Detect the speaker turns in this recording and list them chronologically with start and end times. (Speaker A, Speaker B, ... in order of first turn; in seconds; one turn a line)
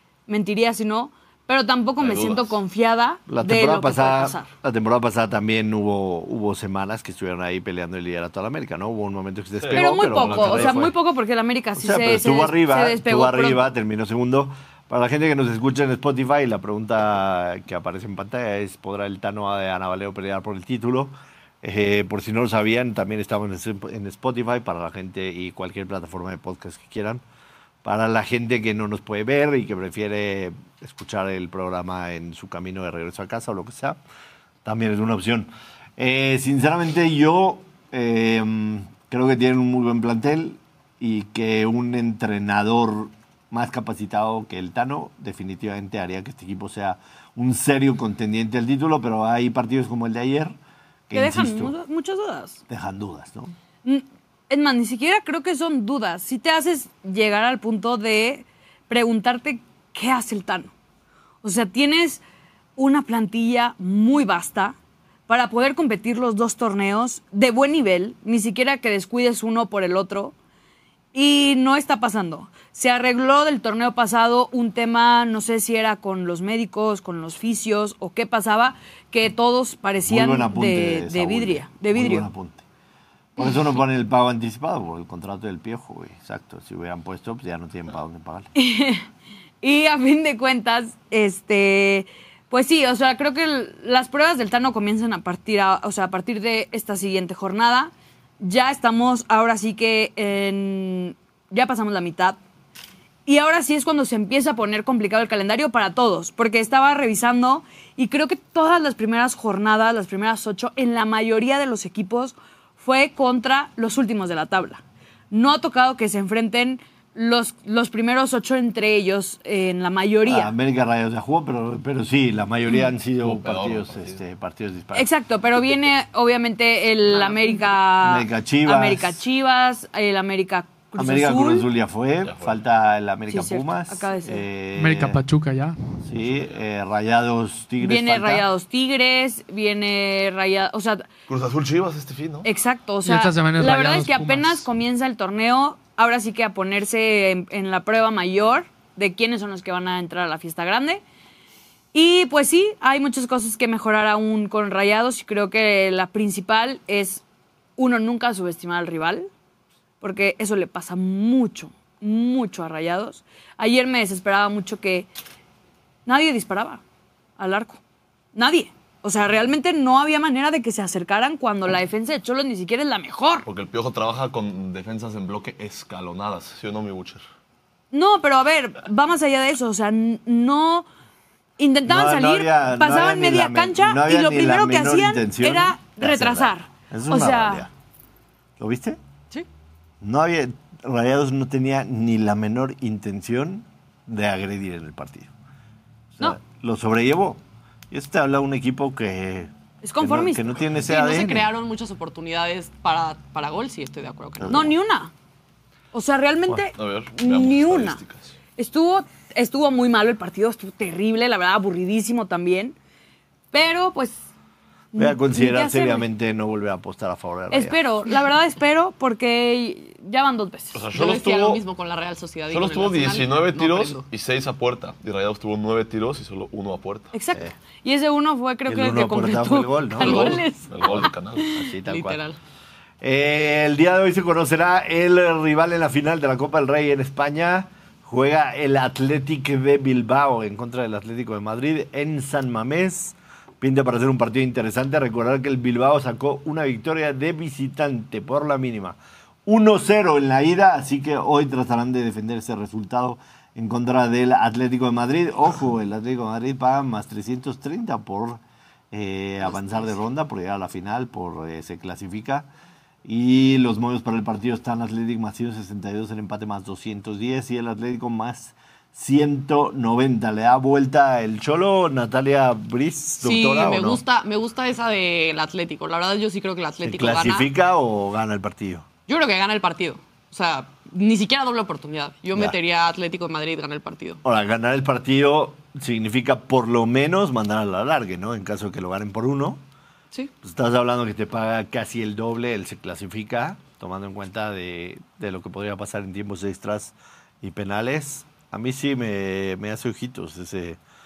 Speaker A: 0.3-4.5
Speaker B: 2.0-2.6
Speaker C: 3.3-10.9
Speaker B: 9.6-10.9
Speaker A: 9.7-13.7
Speaker C: 11.8-27.2
Speaker C: 27.8-34.0
Speaker C: 34.6-50.5
Speaker C: 51.1-51.8
Speaker A: 51.1-52.6
Speaker C: 52.7-53.5
Speaker A: 53.8-60.7
Speaker A: 61.4-62.2
Speaker A: 62.8-64.8
Speaker A: 65.3-70.3
Speaker A: 71.1-82.3
Speaker C: 80.0-82.6
Speaker C: 83.3-88.5
Speaker A: 88.5-89.0
Speaker A: 89.6-102.4
Speaker A: 103.2-120.5
Speaker C: 120.2-125.1
Speaker B: 123.2-124.2
Speaker A: 124.9-131.7
Speaker D: 127.1-127.4
Speaker C: 128.0-129.2
Speaker C: 131.0-135.2
Speaker B: 132.2-132.6
Speaker A: 133.3-134.4
Speaker E: 134.8-135.8
Speaker C: 136.0-138.4
Speaker A: 137.8-141.1
Speaker B: 141.3-142.5
Speaker A: 142.4-151.0
Speaker E: 143.0-144.7
Speaker A: 151.9-157.2
Speaker A: 157.8-159.3
Speaker A: 160.0-165.1
Speaker A: 166.1-166.8
Speaker A: 167.4-167.8
Speaker A: 168.3-173.4
Speaker B: 173.4-177.2
Speaker A: 177.9-180.8
Speaker A: 181.6-187.7
Speaker C: 181.9-187.7
Speaker C: 188.6-189.0
Speaker C: 190.0-195.3
Speaker C: 196.1-201.5
Speaker A: 199.8-200.6
Speaker D: 200.8-204.7
Speaker C: 204.4-204.7
Speaker A: 204.5-205.1
Speaker A: 205.9-208.0
Speaker B: 206.7-208.3
Speaker A: 208.6-212.8
Speaker A: 213.5-214.3
Speaker A: 214.9-216.1
Speaker C: 214.9-217.8
Speaker A: 217.5-220.8
Speaker B: 220.7-221.6
Speaker D: 220.9-224.0
Speaker B: 222.5-227.1
Speaker A: 227.1-230.7
Speaker C: 228.7-232.2
Speaker B: 230.0-231.5
Speaker D: 231.8-232.4
Speaker C: 233.0-262.5
Speaker D: 259.4-260.0
Speaker C: 263.0-274.0
Speaker D: 273.2-277.5
Speaker C: 276.8-278.9
Speaker D: 279.1-284.2
Speaker C: 284.2-289.6
Speaker C: 290.4-300.8